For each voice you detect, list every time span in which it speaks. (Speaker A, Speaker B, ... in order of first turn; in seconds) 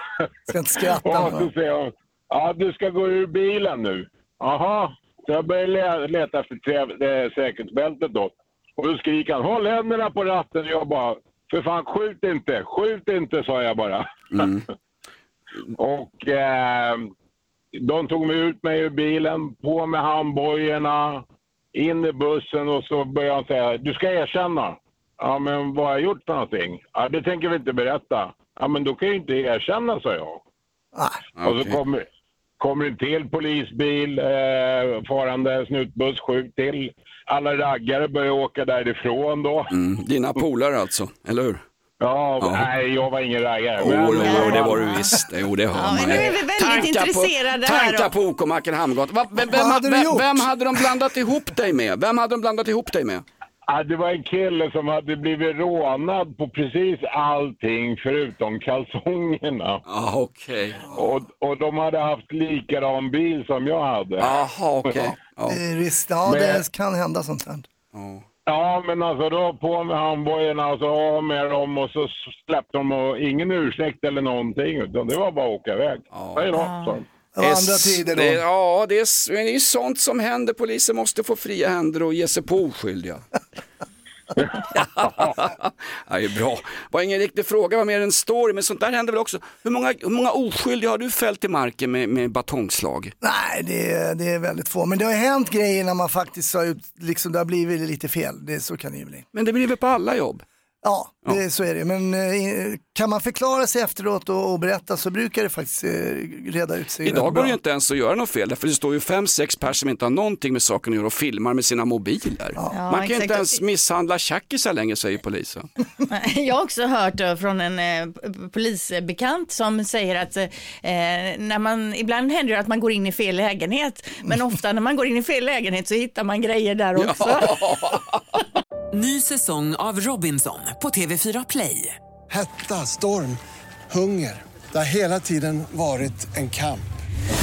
Speaker A: 0.5-1.5, 30.9-31.2, 49.4-50.5, 65.5-67.7, 77.3-78.4, 93.2-99.2, 100.8-107.5
Speaker B: 1.0-14.6, 15.8-17.1, 17.7-21.2, 21.7-30.4, 31.4-32.0, 32.6-39.7, 42.0-44.9, 53.7-59.8, 60.9-64.3, 64.8-65.1, 66.2-66.6, 68.5-77.0, 84.4-85.3
Speaker C: 14.3-14.6, 31.4-31.8, 39.7-41.6, 42.4-42.7, 43.8-53.2, 59.9-61.0, 64.2-65.6, 67.9-68.2, 76.1-76.5, 77.4-83.2, 84.7-93.1, 99.3-100.4, 107.0-115.7, 127.0-128.2
Speaker D: 44.2-45.1, 45.7-48.1, 76.6-76.9, 112.7-113.5, 116.1-127.7
Speaker E: 128.9-131.9
Speaker F: 132.3-133.4, 133.9-136.9